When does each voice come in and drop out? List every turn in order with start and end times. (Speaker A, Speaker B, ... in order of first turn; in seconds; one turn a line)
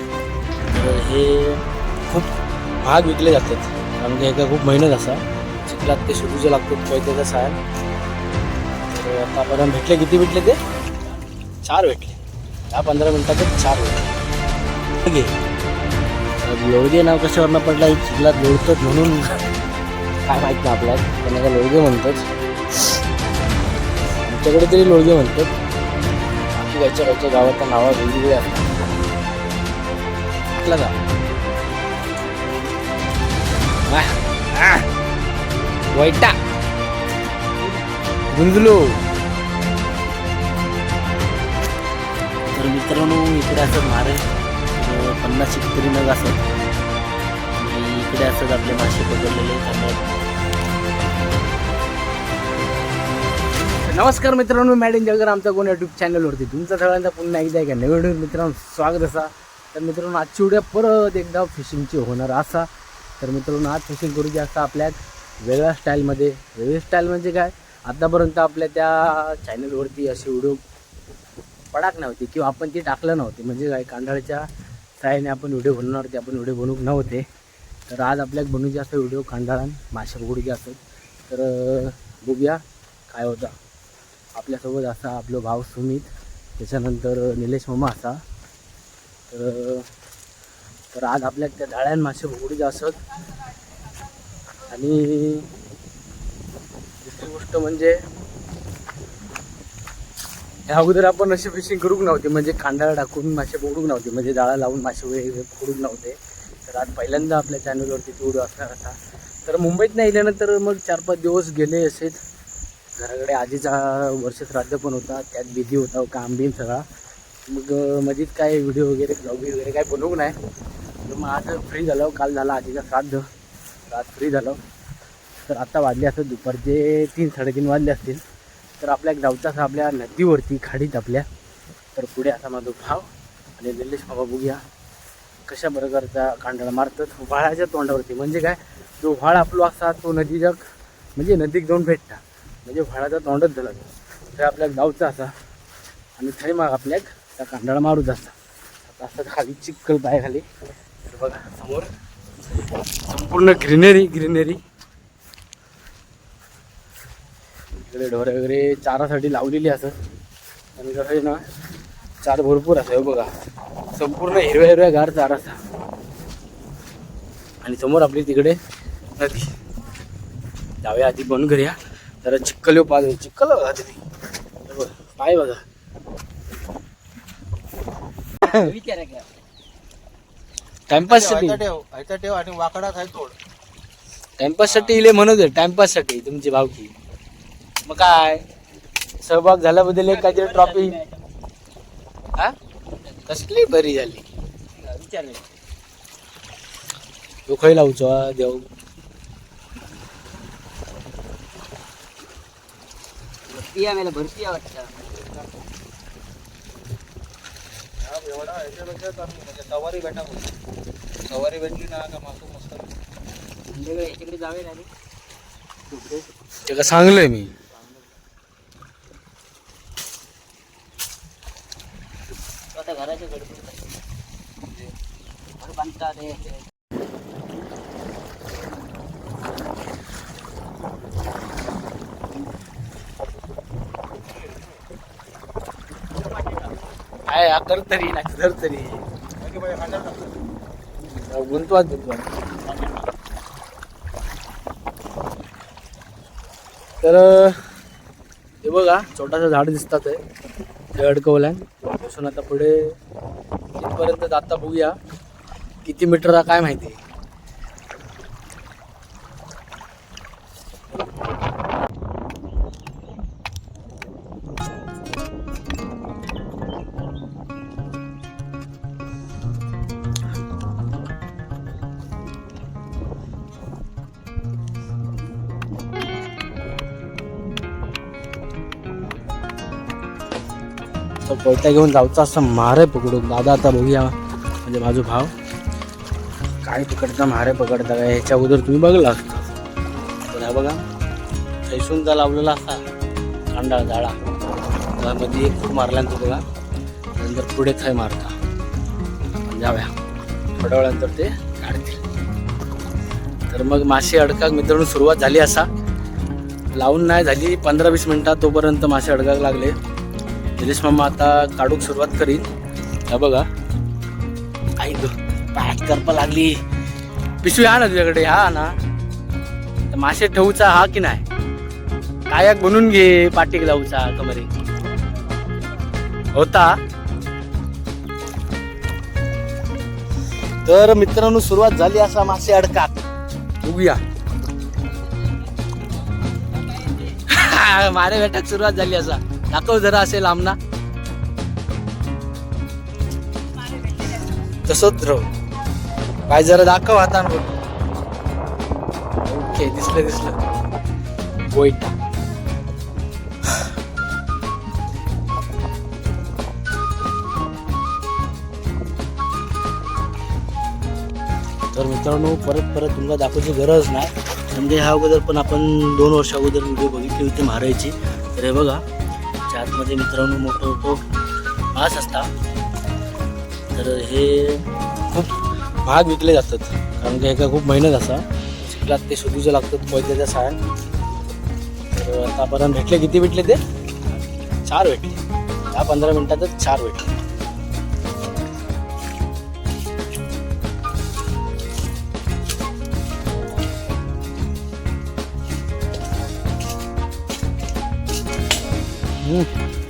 Speaker A: 0.6-7.6
Speaker A: 8.9-10.6
Speaker A: 11.6-12.2
Speaker A: 12.7-14.1
Speaker A: 15.0-15.4
Speaker A: 16.4-19.4
Speaker A: 20.2-22.2
Speaker A: 24.2-25.5
Speaker A: 26.5-28.7
Speaker A: 30.6-30.9
Speaker A: 33.9-34.9
Speaker A: 35.9-36.4
Speaker A: 38.3-38.9
Speaker A: 42.5-46.4
Speaker A: 47.5-50.1
Speaker A: 53.8-62.7
Speaker A: 63.2-70.6
Speaker A: 71.7-74.5
Speaker A: 75.0-77.2
Speaker A: 77.9-83.5
Speaker A: 84.3-88.2
Speaker A: 89.3-89.9
Speaker A: 90.9-93.0
Speaker A: 94.6-95.5
Speaker A: 97.0-98.0
Speaker A: 100.7-112.2
Speaker A: 113.0-116.9
Speaker A: 117.5-120.3
Speaker A: 121.0-123.3
Speaker A: 123.9-124.6
Speaker A: 125.5-128.2
Speaker A: 128.8-131.3
Speaker A: 131.9-134.6
Speaker A: 135.4-145.3
Speaker A: 146.2-148.3
Speaker A: 148.9-150.4
Speaker A: 151.1-151.9
Speaker A: 152.9-154.6
Speaker A: 157.8-159.9
Speaker A: 160.8-161.4
Speaker A: 162.2-163.3
Speaker A: 163.9-165.6
Speaker A: 167.6-168.6
Speaker A: 169.2-169.5
Speaker A: 170.8-174.0
Speaker A: 174.6-175.6
Speaker A: 178.4-178.7
Speaker B: 178.4-179.3
Speaker A: 180.9-181.7
Speaker C: 181.2-183.4
Speaker A: 184.4-186.9
Speaker A: 187.8-188.4
Speaker A: 189.2-191.0
Speaker B: 190.2-191.2
Speaker A: 193.2-194.3
Speaker B: 194.8-195.4
Speaker A: 197.5-198.7
Speaker B: 203.5-204.9
Speaker C: 208.0-210.5
Speaker C: 211.2-212.9
Speaker B: 213.7-214.9
Speaker B: 215.9-216.3
Speaker A: 216.7-217.5
Speaker B: 222.7-223.7
Speaker B: 225.6-226.6
Speaker A: 237.2-239.0
Speaker C: 239.5-240.2
Speaker A: 241.2-242.3
Speaker A: 247.0-247.8
Speaker A: 248.6-250.2
Speaker A: 250.9-252.9
Speaker A: 253.8-254.9
Speaker A: 255.8-257.0
Speaker A: 281.2-285.3
Speaker A: 286.6-289.6
Speaker A: 290.3-290.8
Speaker A: 291.6-292.8
Speaker A: 293.5-294.2
Speaker A: 295.0-296.4
Speaker A: 297.1-298.4
Speaker A: 299.4-299.9
Speaker A: 300.6-302.0
Speaker A: 303.5-305.7
Speaker A: 306.7-309.8
Speaker A: 310.6-312.5
Speaker A: 313.1-313.5
Speaker A: 314.8-316.6
Speaker A: 317.4-318.7
Speaker A: 319.9-321.2
Speaker A: 322.3-324.5
Speaker A: 326.3-326.8
Speaker A: 330.6-333.0
Speaker A: 333.6-334.0
Speaker A: 337.1-340.6
Speaker A: 344.0-345.3
Speaker A: 346.3-347.5
Speaker A: 349.2-350.4
Speaker A: 351.5-351.9
Speaker A: 361.7-368.8
Speaker A: 369.5-371.0
Speaker A: 371.7-372.3
Speaker A: 373.7-380.6
Speaker A: 381.9-383.6
Speaker A: 384.6-387.1
Speaker A: 399.2-399.5